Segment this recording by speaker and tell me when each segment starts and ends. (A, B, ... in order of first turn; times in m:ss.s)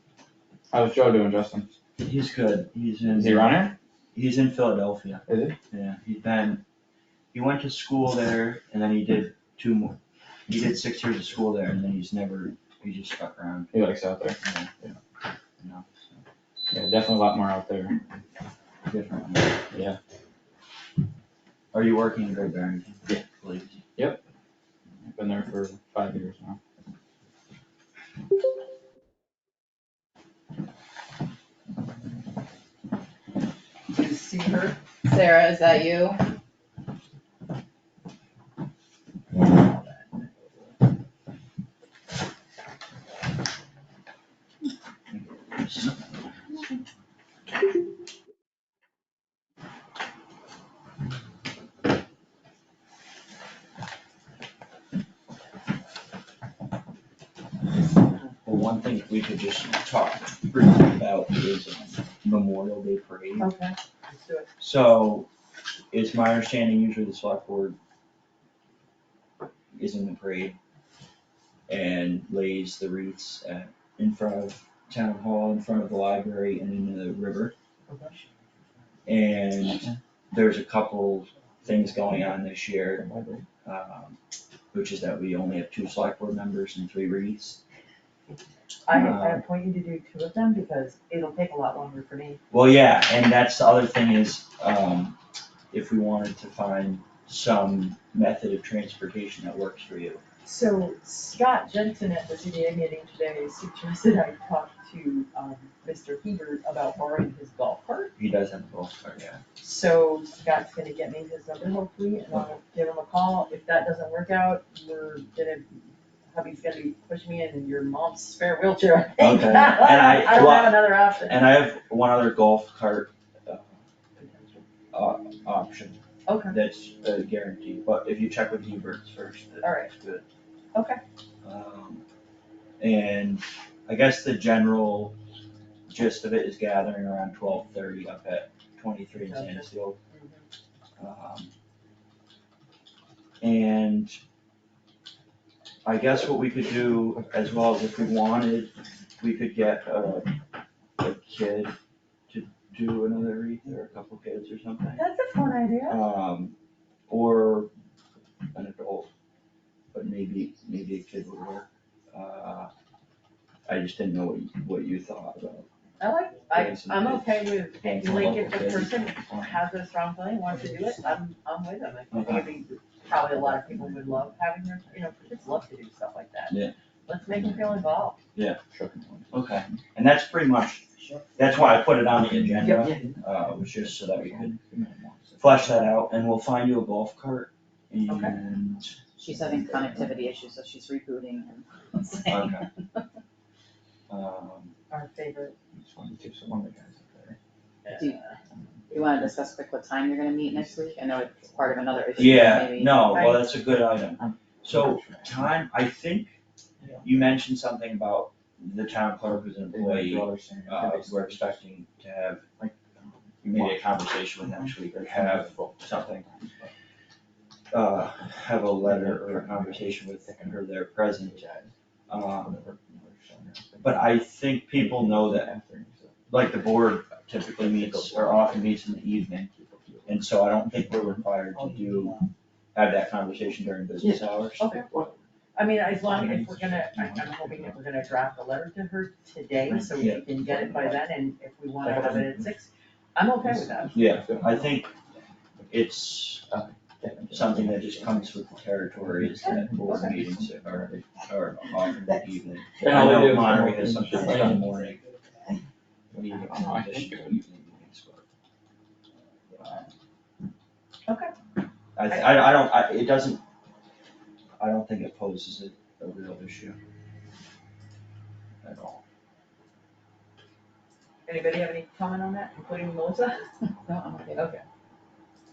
0:00.7-0:01.7 A
0:02.0-0:06.6 B
0:03.1-0:03.7 A
0:05.3-0:05.6 A
0:07.3-0:10.0 B
0:10.5-0:13.7 B
0:13.7-0:15.0 A
0:14.4-0:14.7 B
0:15.6-0:16.2 B
0:16.7-0:18.0 A
0:18.8-0:19.6 B
0:19.7-0:20.0 A
0:21.7-0:23.8 B
0:25.0-0:26.6 A
0:33.9-0:34.8 C
0:35.0-0:36.2 D
0:45.1-0:46.1 B
0:58.4-1:03.5 B
1:03.4-1:04.5 C
1:04.6-1:05.3 B
1:05.9-1:07.8 B
1:09.7-1:10.6 B
1:11.7-1:17.5 B
1:17.9-1:18.3 C
1:19.0-1:23.0 B
1:22.9-1:23.4 A
1:23.6-1:24.2 B
1:24.7-1:27.6 B
1:28.8-1:32.4 C
1:28.9-1:29.4 B
1:32.5-1:35.2 B
1:35.7-1:40.2 B
1:40.4-1:48.1 C
1:48.2-1:49.4 B
1:49.6-2:01.4 C
1:59.2-2:03.8 B
2:04.2-2:04.6 C
2:04.9-2:10.2 B
2:06.3-2:06.6 C
2:09.6-2:09.9 C
2:10.7-2:11.0 C
2:11.4-2:12.0 B
2:12.8-2:15.1 B
2:15.9-2:20.0 B
2:19.2-2:20.4 C
2:21.0-2:21.5 B
2:23.4-2:24.2 B
2:25.8-2:30.3 B
2:31.0-2:31.7 B
2:32.3-2:35.0 B
2:34.9-2:36.0 C
2:35.9-2:36.5 B
2:37.1-2:37.7 B
2:38.5-2:39.1 B
2:39.9-2:42.7 B
2:43.6-2:45.7 B
2:46.0-2:58.2 C
2:46.5-2:49.0 B
2:48.3-2:49.6 A
2:52.1-2:52.5 B
2:57.3-2:57.9 A
2:58.6-2:59.8 A
2:59.3-3:00.8 B
3:01.4-3:04.5 B
3:02.2-3:06.0 A
3:05.4-3:08.9 B
3:08.0-3:08.3 C
3:09.2-3:13.0 D
3:09.3-3:10.1 A
3:12.3-3:12.6 B
3:14.1-3:14.7 B
3:14.9-3:15.5 C
3:15.7-3:17.4 A
3:17.8-3:18.3 C
3:17.9-3:18.2 D
3:18.5-3:19.4 A
3:18.9-3:23.2 D
3:20.4-3:22.6 A
3:22.2-3:26.4 B
3:23.1-3:23.5 C
3:24.2-3:25.5 A
3:26.8-3:27.4 A
3:27.0-3:32.4 B
3:29.5-3:31.6 A
3:32.6-3:33.9 A
3:33.4-3:36.3 B
3:34.4-3:36.7 A
3:37.7-3:41.4 B
3:38.8-3:44.2 A
3:42.1-3:42.6 B
3:43.8-3:45.5 B
3:44.7-3:46.3 A
3:46.3-3:49.5 B
3:47.6-3:48.8 A
3:49.5-3:50.3 A
3:50.0-3:52.2 B
3:50.9-3:52.2 A
3:52.7-3:54.7 B
3:54.0-3:55.2 A
3:54.6-3:54.9 C
3:55.5-4:03.9 C
3:55.8-3:57.9 A
3:59.6-4:00.8 B
4:00.4-4:00.9 A
4:01.8-4:02.5 A
4:03.4-4:05.8 A
4:03.9-4:04.9 B
4:05.7-4:06.4 B
4:06.4-4:11.3 A
4:07.3-4:15.0 B
4:09.8-4:10.1 C
4:12.8-4:14.7 A
4:16.1-4:17.4 A
4:16.1-4:18.2 B
4:19.5-4:19.8 A
4:21.1-4:21.3 C
4:22.0-4:23.4 B
4:22.1-4:22.4 C
4:24.6-4:26.8 B
4:28.6-4:29.0 B
4:31.2-4:33.4 C
4:33.8-4:34.5 D
4:34.4-4:34.6 C